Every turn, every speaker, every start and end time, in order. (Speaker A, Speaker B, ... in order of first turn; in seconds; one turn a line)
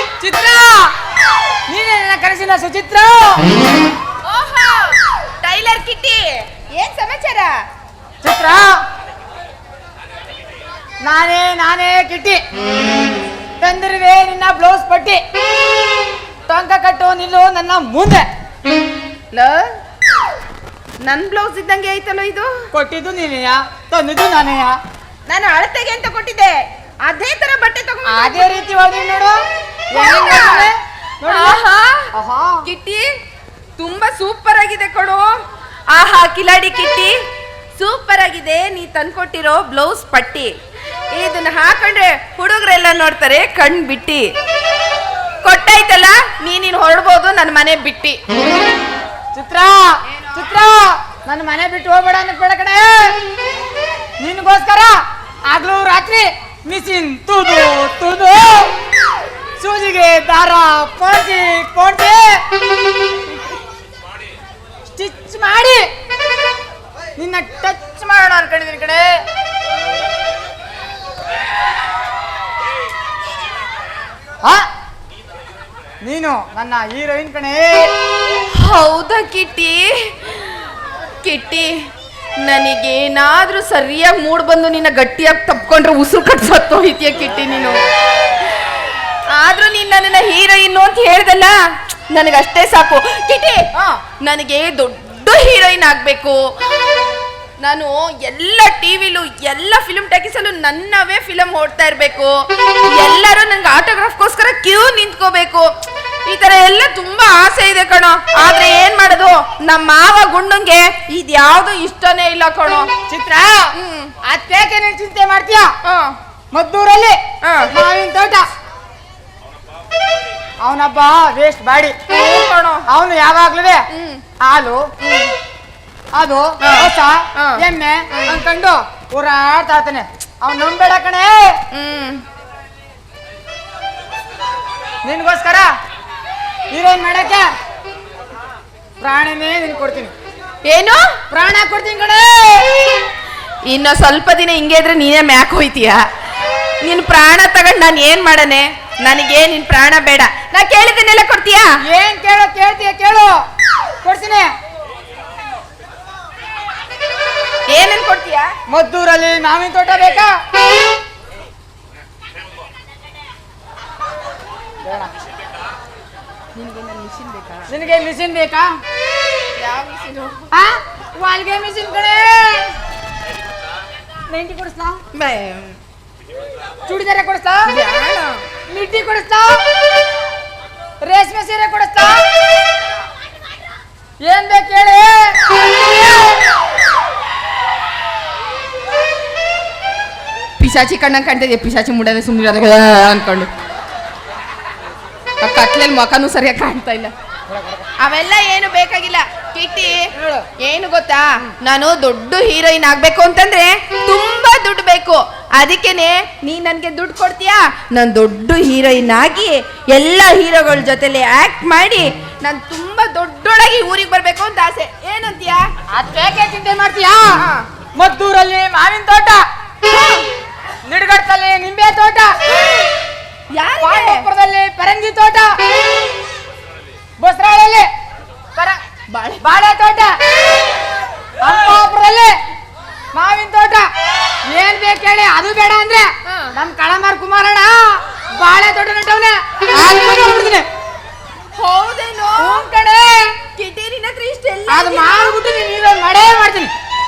Speaker A: 0.2-0.9
Speaker A: 1.7-3.4
Speaker B: 4.2-7.6
Speaker A: 8.2-8.8
Speaker A: 11.0-12.4
Speaker A: 13.6-15.2
Speaker A: 16.5-18.3
Speaker B: 19.3-19.7
Speaker B: 21.0-22.5
Speaker A: 22.7-24.8
Speaker B: 25.3-28.5
Speaker A: 28.1-29.4
Speaker A: 29.9-31.6
Speaker B: 29.9-30.7
Speaker B: 31.2-32.1
Speaker A: 32.1-32.6
Speaker B: 32.6-33.0
Speaker B: 33.8-35.3
Speaker B: 35.9-37.1
Speaker B: 37.8-40.5
Speaker B: 41.1-44.3
Speaker B: 45.4-48.2
Speaker A: 49.3-53.2
Speaker B: 50.1-50.5
Speaker A: 54.2-55.0
Speaker A: 55.5-58.7
Speaker A: 59.6-62.4
Speaker A: 64.9-65.9
Speaker A: 67.2-69.1
Speaker A: 76.0-77.9
Speaker B: 78.5-80.6
Speaker B: 81.2-81.7
Speaker B: 82.4-87.8
Speaker B: 89.3-91.5
Speaker B: 92.1-93.7
Speaker B: 94.2-97.0
Speaker B: 97.6-105.7
Speaker B: 106.3-112.9
Speaker A: 113.1-113.7
Speaker B: 113.8-114.1
Speaker A: 114.2-115.7
Speaker B: 115.8-116.2
Speaker A: 116.5-118.5
Speaker B: 117.4-117.7
Speaker A: 120.6-122.0
Speaker B: 122.1-122.9
Speaker A: 122.9-123.8
Speaker B: 123.9-124.2
Speaker A: 124.4-124.8
Speaker B: 125.0-125.3
Speaker A: 126.1-131.6
Speaker B: 126.6-128.4
Speaker B: 131.7-132.2
Speaker A: 135.0-135.7
Speaker A: 136.7-137.5
Speaker A: 139.0-140.1
Speaker B: 140.7-141.1
Speaker A: 141.3-142.7
Speaker B: 143.7-146.1
Speaker B: 146.8-151.7
Speaker A: 151.9-153.3
Speaker A: 154.0-154.5
Speaker B: 157.7-158.5
Speaker A: 158.7-160.3
Speaker A: 164.8-165.1
Speaker B: 166.6-167.7
Speaker A: 167.7-168.7
Speaker B: 169.6-170.4
Speaker A: 170.5-172.7
Speaker A: 174.3-175.0
Speaker B: 175.1-175.8
Speaker A: 176.9-177.7
Speaker B: 177.7-178.4
Speaker A: 178.7-179.6
Speaker A: 181.0-182.2
Speaker A: 184.2-185.6
Speaker B: 190.6-193.5
Speaker B: 195.4-197.1
Speaker A: 197.5-197.8
Speaker B: 198.0-215.7
Speaker A: 200.2-200.5
Speaker A: 215.9-217.4
Speaker B: 217.4-217.7
Speaker A: 218.0-219.4
Speaker B: 219.8-220.3
Speaker A: 220.8-222.4
Speaker B: 223.6-224.3
Speaker A: 223.8-225.5
Speaker A: 227.2-227.9
Speaker B: 229.1-229.5
Speaker A: 229.4-230.1
Speaker A: 231.4-232.3
Speaker A: 233.1-233.9
Speaker A: 234.5-240.7
Speaker B: 241.6-242.7
Speaker A: 242.4-243.3
Speaker B: 243.6-245.4
Speaker A: 244.7-246.7